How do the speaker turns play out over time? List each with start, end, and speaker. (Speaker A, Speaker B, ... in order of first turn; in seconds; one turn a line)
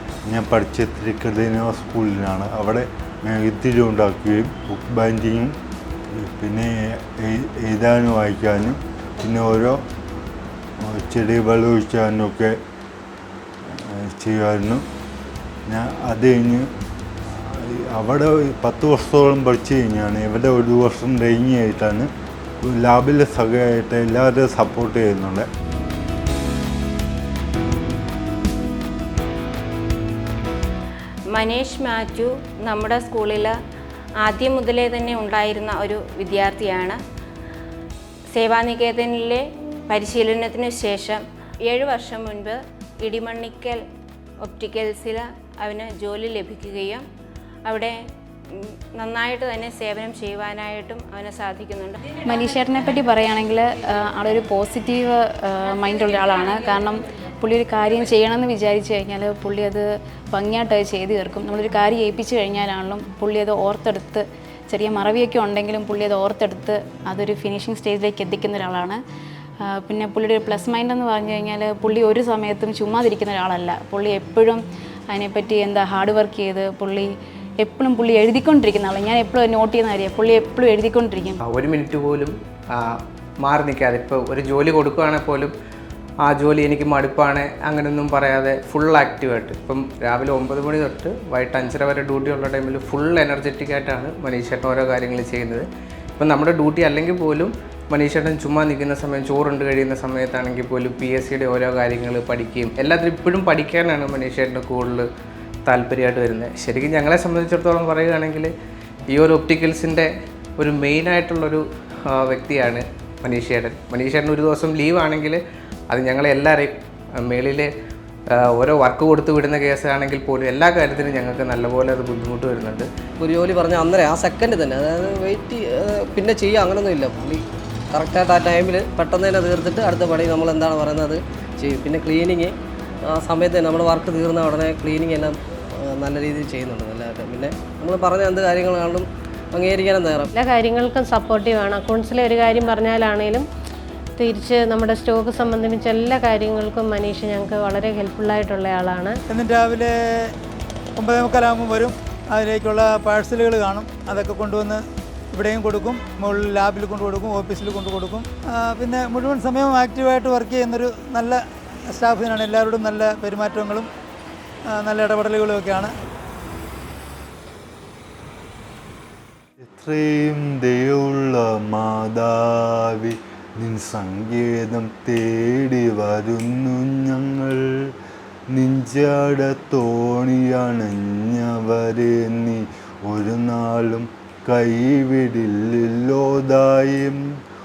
Speaker A: 0.3-5.5
Speaker A: 6.1-9.8
Speaker A: 10.8-12.6
Speaker A: 13.7-14.9
Speaker A: 15.7-16.7
Speaker A: 17.5-22.1
Speaker A: 22.6-25.5
Speaker B: 31.3-33.5
Speaker B: 34.2-37.0
Speaker B: 38.3-43.8
Speaker B: 44.4-47.0
Speaker B: 47.7-48.0
Speaker B: 48.5-52.1
Speaker C: 52.3-69.0
Speaker C: 69.7-81.4
Speaker D: 81.5-85.5
Speaker D: 86.2-105.1
Speaker D: 105.7-108.5
Speaker D: 109.1-117.7
Speaker D: 118.6-122.9
Speaker E: 123.2-132.5
Speaker E: 133.1-140.3
Speaker F: 140.4-143.4
Speaker F: 144.2-149.2
Speaker G: 149.3-149.9
Speaker G: 151.0-163.9
Speaker G: 164.7-165.9
Speaker A: 169.6-177.9
Speaker A: 178.5-187.2